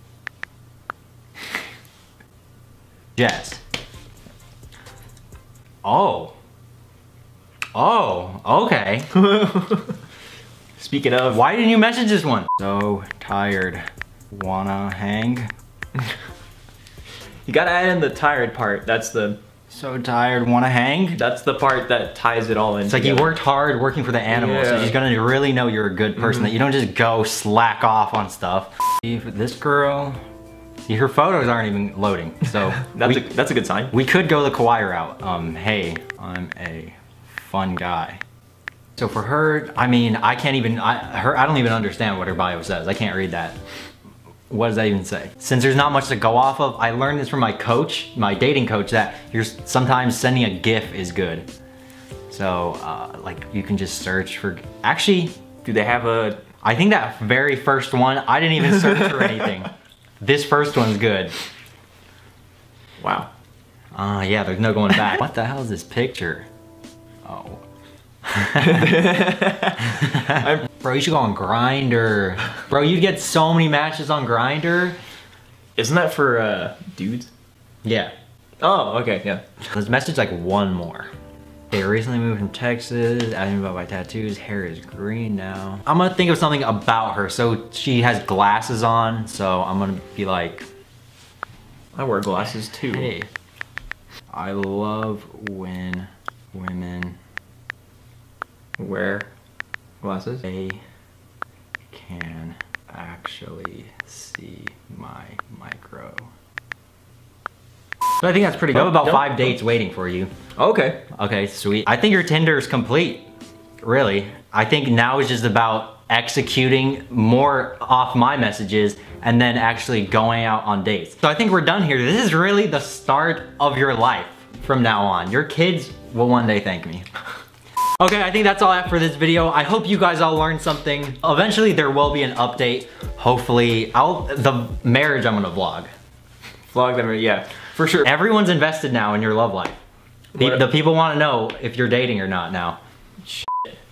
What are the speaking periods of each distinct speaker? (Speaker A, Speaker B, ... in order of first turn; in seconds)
Speaker A: 3.2-3.6, 5.8-6.3, 7.8-9.1, 11.3-15.5, 19.7-21.2, 22.9-30.2, 30.9-33.3, 33.9-38.2, 39.0-43.6, 44.5-51.5, 52.3-55.4, 56.6-61.4, 64.0-66.5, 67.2-67.6, 68.3-69.1, 69.9-75.0, 77.8-78.1, 79.7-81.1, 81.7-90.7, 92.9-93.3, 94.3-97.2, 100.4-100.8, 101.9-106.3, 108.2-110.3, 111.1-113.3, 113.8-127.1, 128.0-135.9, 138.0-139.8, 140.4-142.8
Speaker B: 9.1-9.9, 10.8-11.4, 17.5-19.4, 21.2-23.4, 24.3-25.0, 26.2-26.5, 32.9-33.9, 55.6-56.4, 63.0-63.3, 68.6-70.7, 75.8-77.3, 78.6-79.4, 92.0-93.1, 98.8-99.3, 100.0-100.5, 108.7-109.4, 110.6-111.0, 136.7-138.1, 140.3-140.6, 143.3-143.7